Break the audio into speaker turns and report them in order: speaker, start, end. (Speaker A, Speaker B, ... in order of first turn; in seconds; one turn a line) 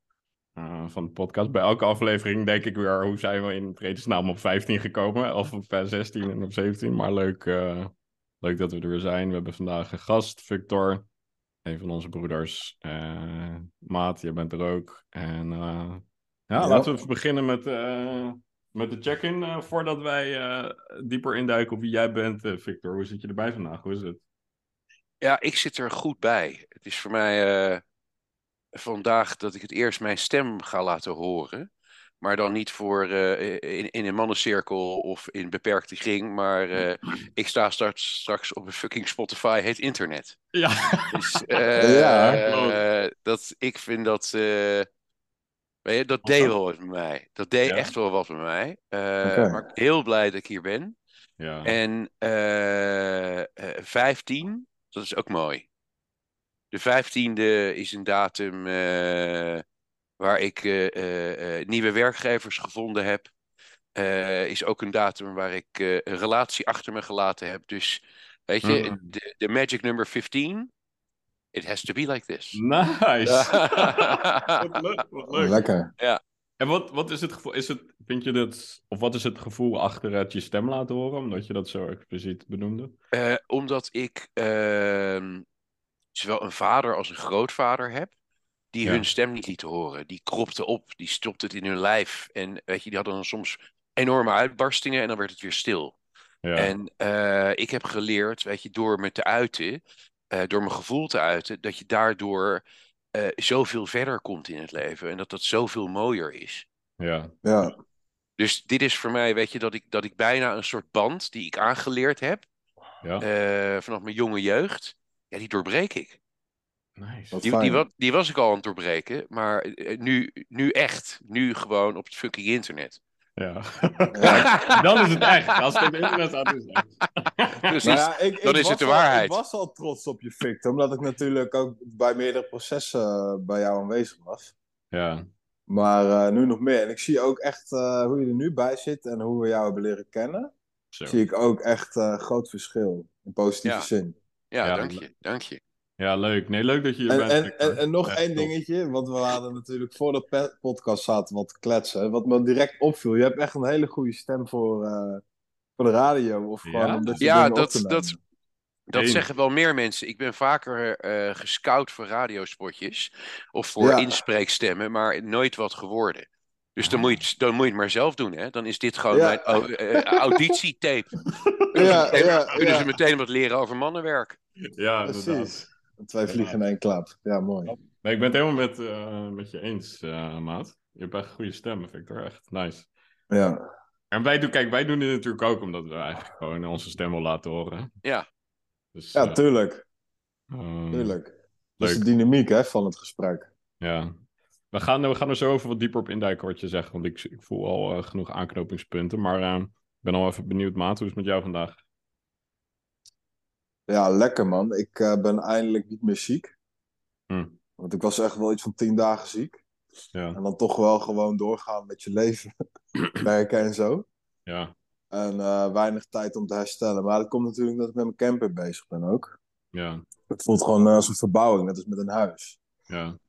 Speaker A: 0.6-11.1
Speaker A: 11.7-24.2
Speaker B: 16.6-16.9
Speaker C: 25.2-27.8
Speaker C: 28.7-31.7
Speaker C: 32.2-40.4
Speaker A: 40.5-42.8
Speaker C: 41.1-44.9
Speaker B: 41.8-42.4
Speaker C: 45.8-51.0
Speaker A: 46.2-46.5
Speaker A: 47.7-47.9
Speaker B: 49.2-49.6
Speaker A: 51.4-51.8
Speaker C: 51.6-55.7
Speaker C: 56.7-59.6
Speaker C: 60.2-63.3
Speaker C: 64.0-70.7
Speaker A: 68.6-69.1
Speaker C: 71.5-72.6
Speaker A: 72.5-75.6
Speaker C: 73.2-74.8
Speaker B: 75.3-75.9
Speaker A: 76.6-83.0
Speaker C: 83.1-85.4
Speaker C: 86.1-88.1
Speaker C: 88.7-96.0
Speaker A: 96.4-96.7
Speaker C: 96.5-99.8
Speaker C: 100.3-102.6
Speaker C: 103.1-106.7
Speaker A: 107.0-107.3
Speaker B: 107.4-107.7
Speaker C: 108.4-112.5
Speaker C: 113.2-116.2
Speaker A: 117.0-117.5
Speaker B: 117.3-117.8
Speaker C: 117.4-123.0
Speaker A: 123.4-128.0
Speaker B: 124.1-124.5
Speaker C: 124.2-126.1
Speaker C: 127.7-129.4
Speaker B: 127.8-134.5
Speaker A: 134.9-135.2
Speaker B: 135.7-140.5
Speaker A: 140.9-141.2
Speaker B: 141.1-144.2
Speaker C: 144.5-145.6
Speaker A: 144.6-145.0
Speaker A: 146.0-148.5
Speaker B: 147.1-155.2
Speaker B: 155.8-158.2
Speaker A: 156.7-157.4
Speaker C: 157.2-158.2
Speaker C: 158.9-174.4
Speaker A: 158.9-159.2
Speaker B: 163.8-164.2
Speaker A: 166.8-167.2
Speaker B: 169.1-170.4
Speaker A: 171.3-172.5
Speaker B: 171.8-172.9
Speaker A: 174.8-175.7
Speaker B: 175.1-177.7
Speaker A: 176.3-176.6
Speaker A: 177.7-182.9
Speaker B: 183.3-183.6
Speaker A: 184.1-187.9
Speaker A: 188.9-189.4
Speaker B: 189.2-189.8
Speaker A: 190.5-191.2
Speaker B: 190.9-193.5
Speaker A: 191.8-192.1
Speaker A: 193.8-194.1
Speaker A: 194.7-201.8
Speaker B: 203.9-206.6
Speaker A: 207.3-207.6
Speaker B: 207.8-209.6
Speaker A: 210.1-210.4
Speaker B: 210.3-212.5
Speaker B: 213.2-214.1
Speaker A: 214.5-214.7
Speaker B: 215.1-219.4
Speaker A: 219.7-220.1
Speaker B: 220.3-222.6
Speaker A: 222.9-223.2